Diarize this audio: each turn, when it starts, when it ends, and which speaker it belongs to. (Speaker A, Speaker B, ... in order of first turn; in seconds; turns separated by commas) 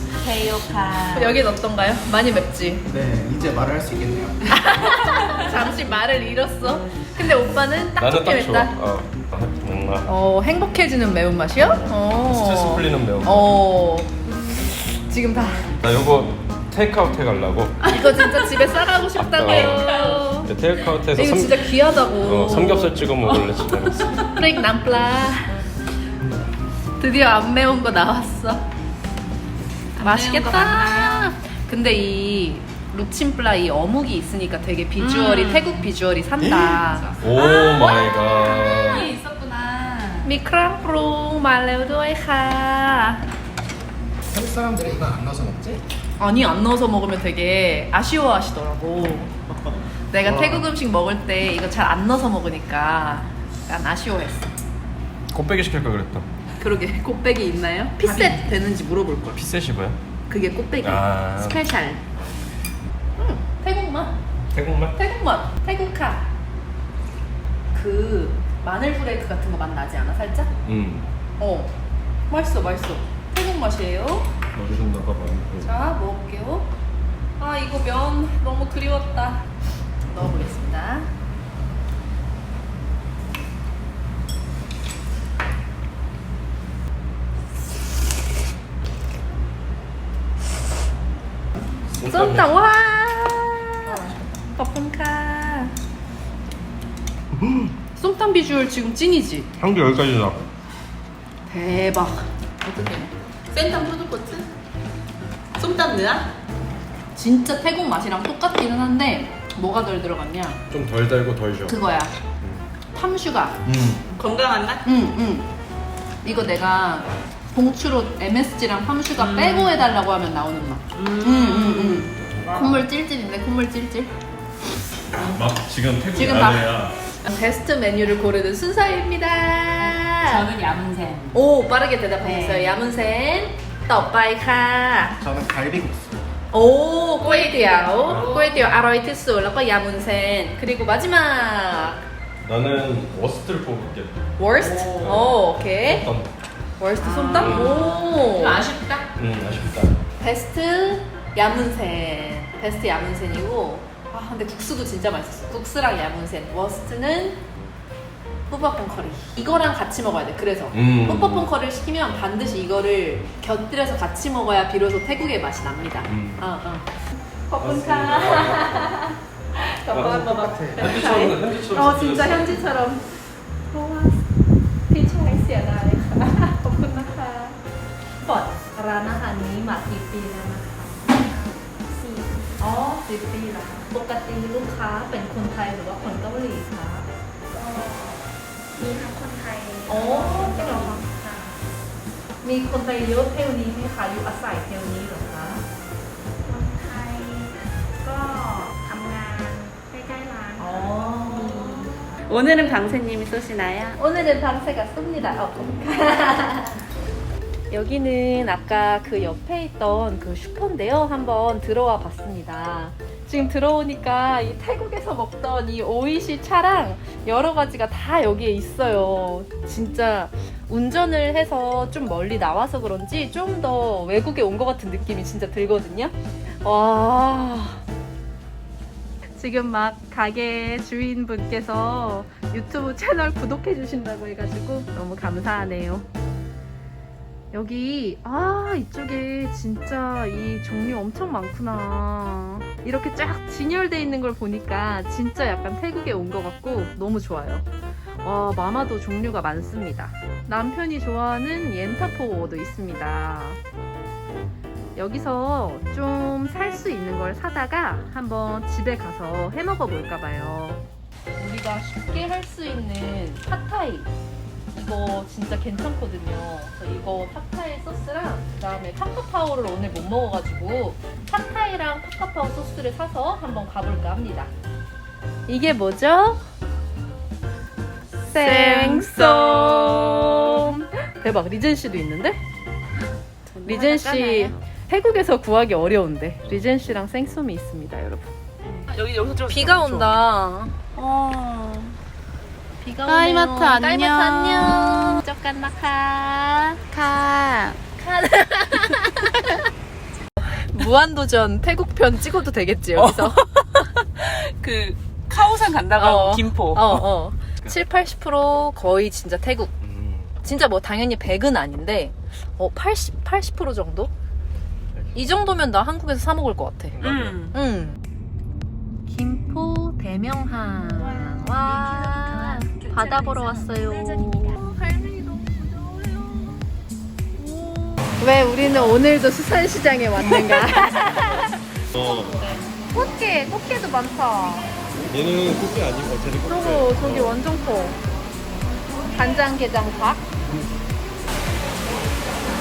Speaker A: 0.1-1.4, Speaker B: 1.1-2.8, Speaker C: 2.9-4.6, Speaker B: 4.5-8.7, Speaker D: 8.0-10.1, Speaker B: 10.1-14.1, Speaker D: 12.2-13.6, Speaker B: 14.7-15.7, Speaker D: 15.8-18.0, Speaker B: 17.8-20.5, Speaker D: 19.1-24.3, Speaker A: 19.8-20.1, Speaker B: 21.1-23.0, Speaker B: 24.1-25.6, Speaker B: 27.0-28.6, Speaker A: 29.9-31.3, Speaker B: 30.0-39.1, Speaker A: 35.0-35.9, Speaker A: 37.0-40.3, Speaker D: 37.2-39.1, Speaker B: 40.2-43.2, Speaker C: 44.3-45.8, Speaker B: 46.2-54.5, Speaker D: 55.3-56.2, Speaker B: 56.6-59.4, Speaker A: 58.0-58.4, Speaker D: 59.3-60.0, Speaker B: 60.3-62.0, Speaker D: 60.8-61.6, Speaker B: 63.2-64.2, Speaker D: 64.5-65.0, Speaker B: 65.0-66.3, Speaker B: 67.7-70.5, Speaker D: 70.6-71.1, Speaker B: 71.4-71.7, Speaker B: 72.3-74.3, Speaker D: 74.5-75.7, Speaker B: 75.6-76.7, Speaker B: 77.4-79.5, Speaker B: 80.1-81.1, Speaker D: 91.9-92.7, Speaker B: 92.0-95.8, Speaker D: 97.3-97.7, Speaker B: 97.9-99.5, Speaker D: 99.6-100.5, Speaker B: 101.5-103.1, Speaker A: 103.5-104.5, Speaker A: 105.6-106.3, Speaker B: 107.2-110.6, Speaker D: 110.7-111.8, Speaker B: 111.7-112.1, Speaker D: 112.4-112.7, Speaker B: 112.9-113.6, Speaker D: 113.6-114.0, Speaker A: 114.1-114.8, Speaker B: 114.8-115.5, Speaker B: 116.2-124.1, Speaker A: 119.2-119.8, Speaker A: 121.0-122.8, Speaker D: 125.1-127.0, Speaker B: 126.1-130.5, Speaker A: 129.8-131.4, Speaker B: 131.3-135.2, Speaker A: 132.2-132.9, Speaker C: 135.2-136.1, Speaker D: 135.2-136.1, Speaker B: 136.5-142.0, Speaker A: 137.2-138.6, Speaker D: 142.4-144.2, Speaker B: 144.4-146.1, Speaker A: 144.6-145.1, Speaker D: 144.8-146.3, Speaker B: 146.8-148.6, Speaker A: 147.0-149.1, Speaker D: 147.3-148.0, Speaker D: 149.2-150.0, Speaker B: 150.2-157.4, Speaker B: 158.5-166.9, Speaker D: 160.7-161.5, Speaker D: 166.1-166.4, Speaker B: 167.5-173.1, Speaker D: 167.6-168.9, Speaker D: 169.9-172.7, Speaker C: 170.0-171.3, Speaker B: 173.7-174.2, Speaker B: 174.9-177.6, Speaker B: 178.2-181.0, Speaker E: 181.1-182.6, Speaker B: 182.6-187.1, Speaker E: 187.5-188.2, Speaker E: 188.8-191.6, Speaker B: 189.9-191.0, Speaker B: 192.4-195.6, Speaker E: 196.4-201.4, Speaker B: 200.6-201.9, Speaker A: 202.3-204.0, Speaker B: 204.0-206.8, Speaker B: 207.7-227.8, Speaker B: 229.3-236.1, Speaker B: 237.5-247.7, Speaker B: 248.2-253.6, Speaker B: 254.9-260.8, Speaker B: 261.4-264.1, Speaker B: 264.7-274.5, Speaker B: 275.5-276.4, Speaker B: 278.3-282.4, Speaker A: 278.3-280.7, Speaker A: 283.5-284.5, Speaker B: 283.6-288.3, Speaker A: 288.7-290.2, Speaker B: 289.5-290.8, Speaker A: 290.9-292.0, Speaker B: 292.8-296.8, Speaker A: 293.1-295.2, Speaker A: 296.9-297.8, Speaker B: 298.0-299.6, Speaker B: 300.4-303.8, Speaker A: 303.0-307.0, Speaker B: 306.0-309.7, Speaker D: 309.8-310.3, Speaker B: 310.4-314.1, Speaker B: 315.1-317.0, Speaker D: 316.9-317.5, Speaker A: 317.0-317.5, Speaker B: 317.5-318.0, Speaker B: 319.1-326.6, Speaker E: 321.2-324.8, Speaker B: 327.4-331.6, Speaker D: 331.9-332.5, Speaker B: 332.9-334.7, Speaker D: 335.0-337.4, Speaker B: 336.4-338.0, Speaker B: 339.1-340.2